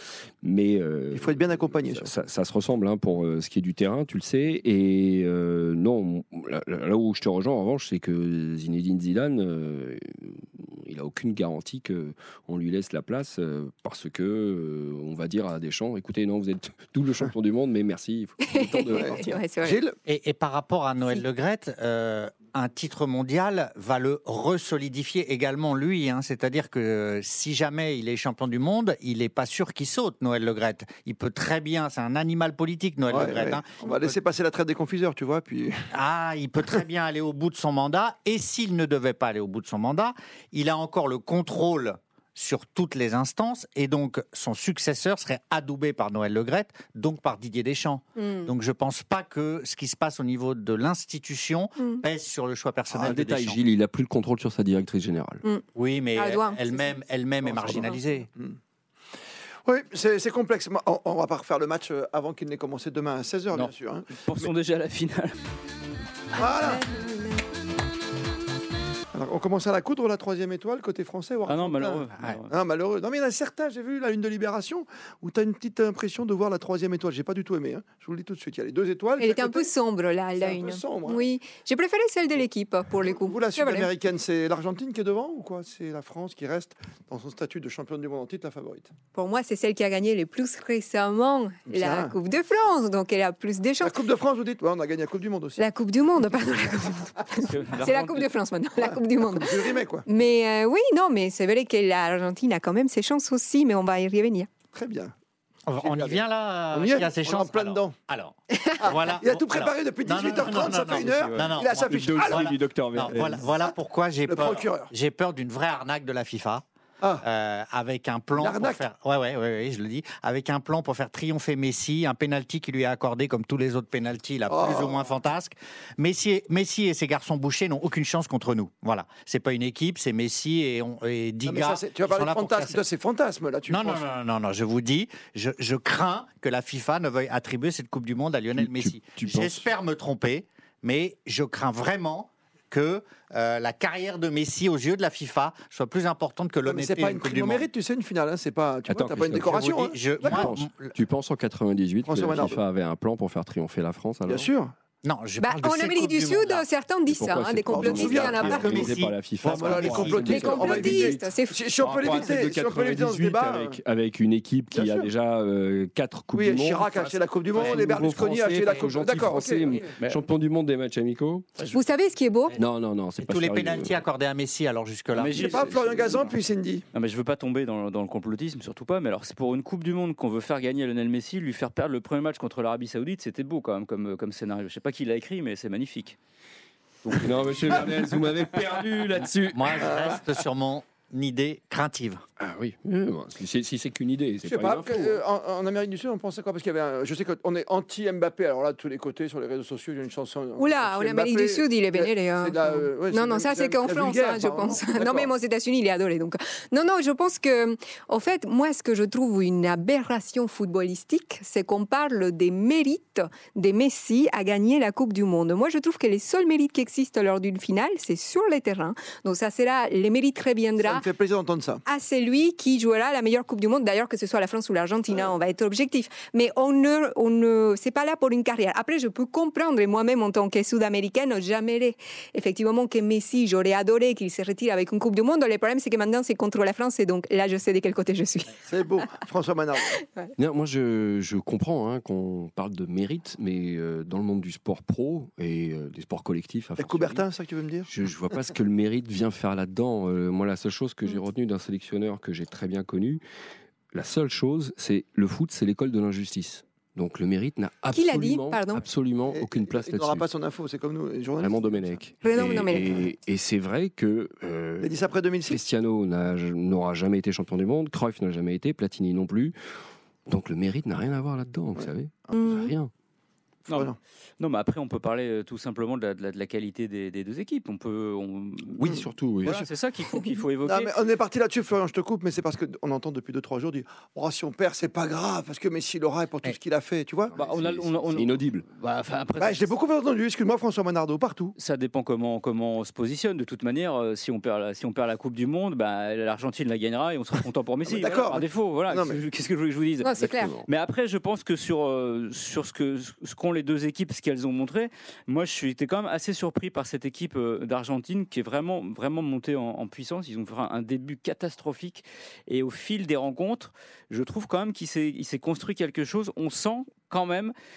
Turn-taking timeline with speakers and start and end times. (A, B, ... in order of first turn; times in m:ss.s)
0:00.4-0:19.5 A
0:01.1-0:02.1 B
0:18.4-0:19.8 C
0:18.9-0:20.0 B
0:20.1-0:34.2 D
0:33.1-0:35.9 B
0:35.9-0:53.6 D
0:48.2-0:48.5 C
0:52.9-0:53.2 B
0:53.0-0:55.4 A
0:55.8-0:58.3 D
0:56.2-0:56.9 C
0:57.4-0:58.6 B
0:59.7-1:04.5 B
1:03.5-1:05.4 E
1:06.4-1:06.8 B
1:06.4-1:07.4 C
1:09.1-1:19.7 B
1:11.5-1:12.5 E
1:19.2-1:23.9 C
1:20.4-1:21.2 B
1:23.0-1:28.9 B
1:29.1-1:34.0 C
1:31.7-1:32.2 B
1:33.8-1:35.6 B
1:35.6-1:44.5 C
1:37.4-1:38.3 E
1:38.8-1:40.1 B
1:44.7-1:45.1 B
1:45.7-1:56.6 D
1:45.8-1:47.9 B
1:48.8-1:52.6 B
1:50.9-1:51.6 E
1:51.9-1:53.4 A
1:54.3-1:54.9 B
1:57.2-2:12.8 D
1:58.4-1:58.8 B
2:04.5-2:05.1 B
2:11.5-2:14.0 B
2:13.7-2:27.7 D
2:18.5-2:19.7 A
2:26.7-2:30.1 B
2:28.9-2:34.5 A
2:29.4-2:30.9 D
2:32.0-2:32.6 B
2:34.3-2:34.7 B
2:35.0-2:36.7 D
2:35.4-2:38.9 C
2:37.1-2:41.3 A
2:37.7-2:43.8 B
2:38.5-2:40.4 D
2:40.1-2:41.6 C
2:41.8-2:51.5 A
2:44.7-2:45.1 B
2:46.3-2:49.9 B
2:51.7-2:52.6 C
2:52.6-2:54.0 A
2:53.2-2:55.6 D
2:55.1-2:55.9 E
2:55.3-2:56.8 B
2:56.9-3:06.2 E
3:07.0-3:09.9 A
3:09.5-3:12.2 D
3:09.7-3:10.2 B
3:12.4-3:15.2 A
3:14.4-3:25.3 B
3:20.6-3:41.0 C
3:40.8-3:41.8 B
3:41.9-3:58.6 C
3:58.7-4:00.0 B
4:00.1-4:00.3 C
4:00.4-4:07.3 A
4:06.8-4:07.9 B
4:07.9-4:13.2 A
4:13.9-4:20.3 A
4:17.9-4:18.8 C
4:19.3-4:22.0 B
4:21.4-4:29.6 A
4:22.2-4:23.0 C
4:24.8-4:25.6 B
4:30.3-4:32.9 A
4:32.4-4:32.7 C
4:33.7-4:40.9 E
4:33.7-4:34.0 B
4:38.8-4:39.6 A
4:38.8-4:39.7 B
4:40.6-4:47.4 B
4:47.3-4:48.6 A
4:47.4-4:49.7 E
4:49.4-4:51.6 B
4:51.6-5:17.5 E
4:57.9-4:59.2 B
5:00.0-5:00.5 C
5:00.2-5:00.6 A